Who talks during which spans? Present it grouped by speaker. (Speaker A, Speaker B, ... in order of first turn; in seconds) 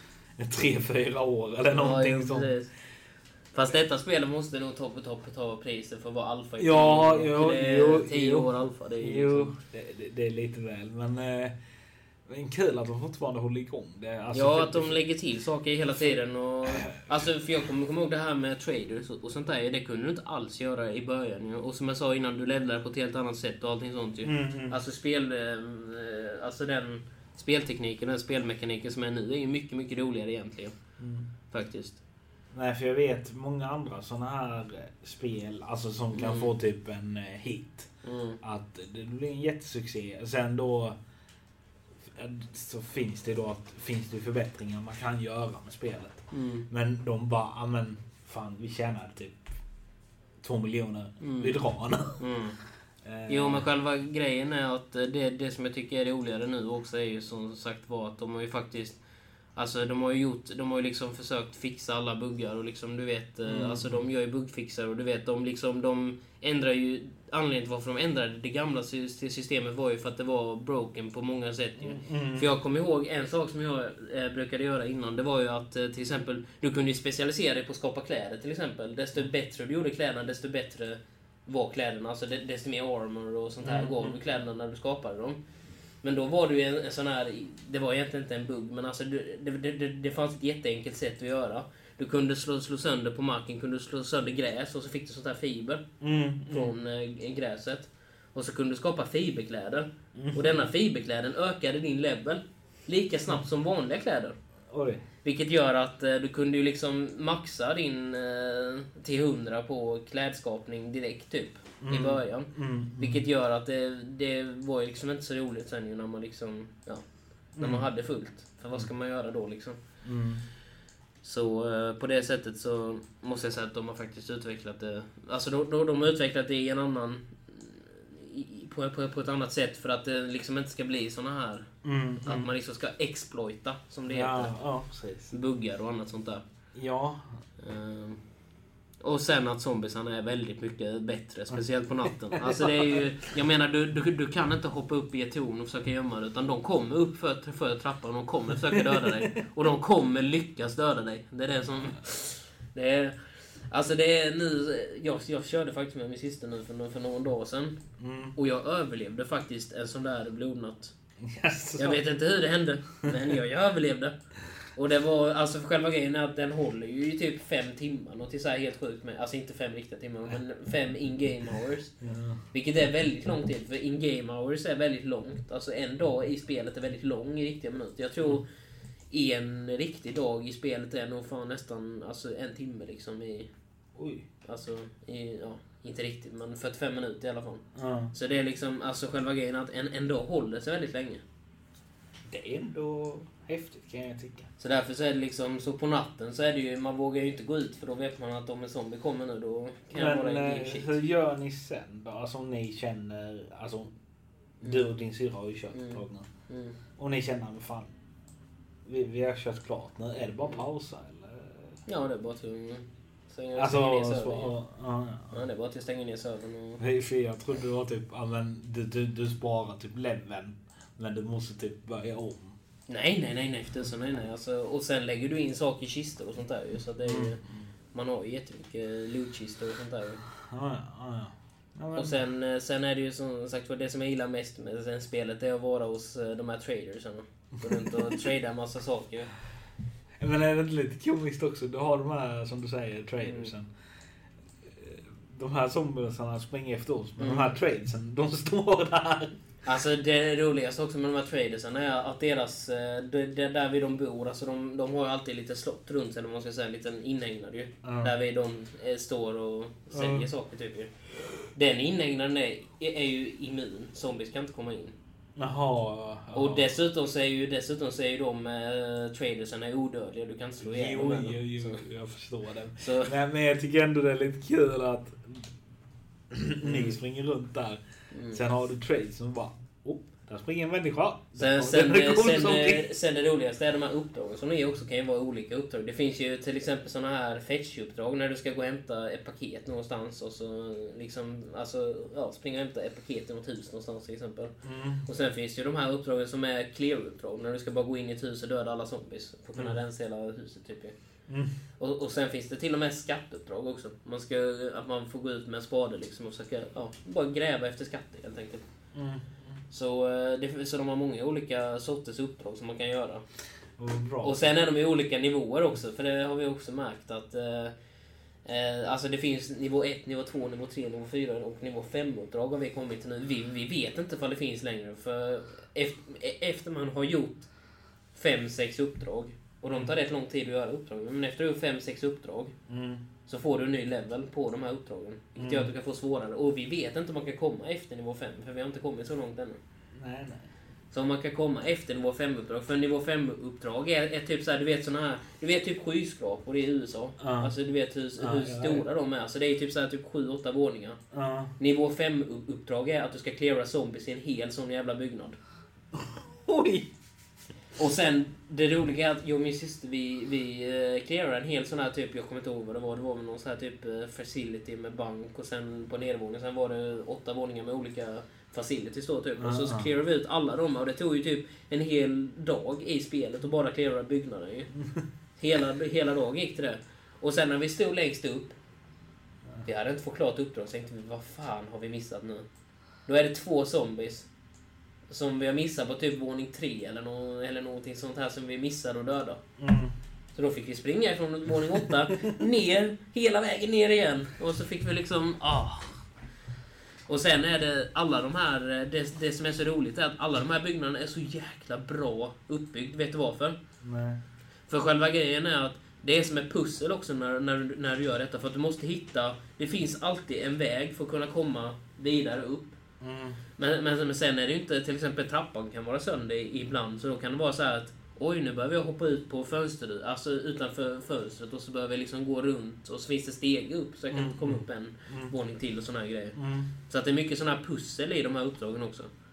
Speaker A: 0.4-2.5, 6.6-11.6, 12.3-15.0, 16.7-16.9, 24.2-24.8, 31.0-31.3, 32.5-37.9, 38.4-41.0, 42.1-49.4, 50.4-52.2, 53.0-53.7, 63.5-64.0, 71.8-72.5, 83.6-84.2, 96.0-96.7, 100.2-100.7, 104.7-105.0, 111.8-113.2, 117.6-117.9, 120.0-120.4, 131.8-132.5, 134.1-135.3, 136.7-137.3, 141.5-143.0, 148.7-149.3, 158.0-158.3, 161.2-162.0, 172.0-172.4, 184.0-184.3, 187.8-188.1, 192.3-194.5, 199.9-203.9, 204.6-206.3, 207.0-207.9, 208.8-211.8, 213.6-215.4, 216.8-222.6, 227.0-227.7, 230.5-232.2, 237.6-238.2, 240.2-243.7, 244.7-249.4, 257.8-258.1, 259.9-260.3, 265.4-266.7, 270.6-275.5, 276.3-282.9, 294.6-295.1, 308.9-309.6, 313.8-314.4, 332.7-333.0, 335.4-335.7, 339.9-340.5, 347.2-347.5, 348.2-348.9, 351.1-351.5, 355.9-356.9, 369.4-369.9, 389.6-389.9, 392.1-392.3, 403.8-404.2, 413.0-413.4, 424.1-425.3, 426.4-426.7
Speaker B: 1.7-2.7, 3.5-9.6, 14.3-30.8, 31.5-32.0, 36.1-36.5, 38.0-38.4, 46.3-46.7, 51.2-51.6, 52.2-52.6, 53.3-59.0, 59.6-85.4, 86.0-95.9, 96.5-104.4, 105.2-117.0, 117.6-119.8, 121.2-131.7, 132.2-134.5, 135.3-136.4, 137.6-138.2, 139.0-153.2, 153.7-157.8, 158.3-160.9, 161.8-164.2, 164.8-171.9, 172.5-178.5, 179.1-183.5, 184.4-191.2, 194.6-200.9, 205.7-206.8, 211.9-214.5, 215.3-216.8, 222.9-227.4, 227.9-230.2, 231.9-239.3, 243.2-243.5, 247.2-247.5, 249.7-260.9, 261.5-264.9, 266.3-271.8, 272.8-273.1, 276.6-277.0, 278.1-278.4, 281.4-300.9, 301.8-308.6, 309.7-313.2, 314.2-317.7, 318.4-327.5, 328.1-332.5, 333.3-339.6, 340.9-351.0, 351.6-355.4, 357.8-374.7, 375.4-378.6, 379.6-382.5, 383.1-384.3, 385.1-389.4, 390.4-396.0, 397.1-403.6, 404.7-412.8, 413.6-429.1